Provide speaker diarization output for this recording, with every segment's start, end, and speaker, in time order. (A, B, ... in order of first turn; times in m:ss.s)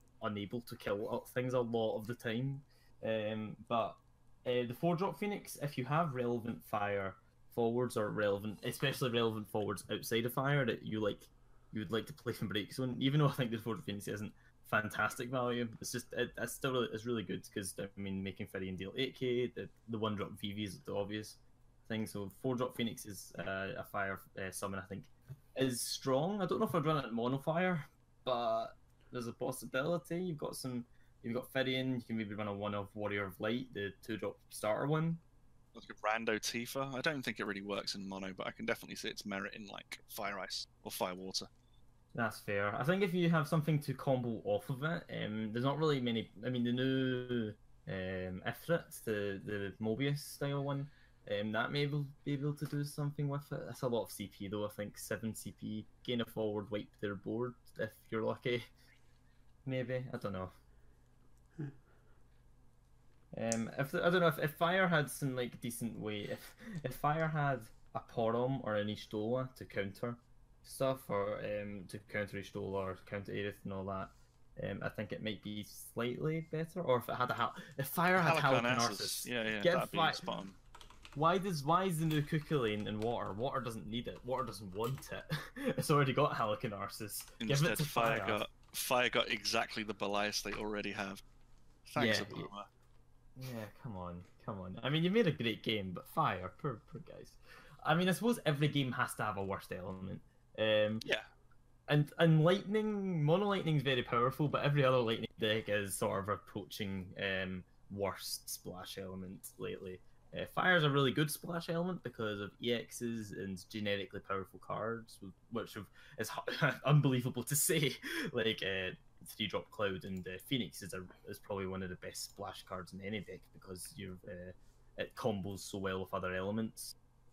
0:00.2-0:35.2 A
0:35.7-0:41.5 B
0:42.1-0:58.7 A
0:59.6-1:00.5 A
1:03.3-1:20.3 A
1:18.2-1:20.6 B
1:21.1-1:28.4 A
1:27.4-1:31.2 B
1:31.8-1:32.7 B
1:32.0-1:32.5 A
1:33.4-1:41.0 A
1:41.9-2:06.9 A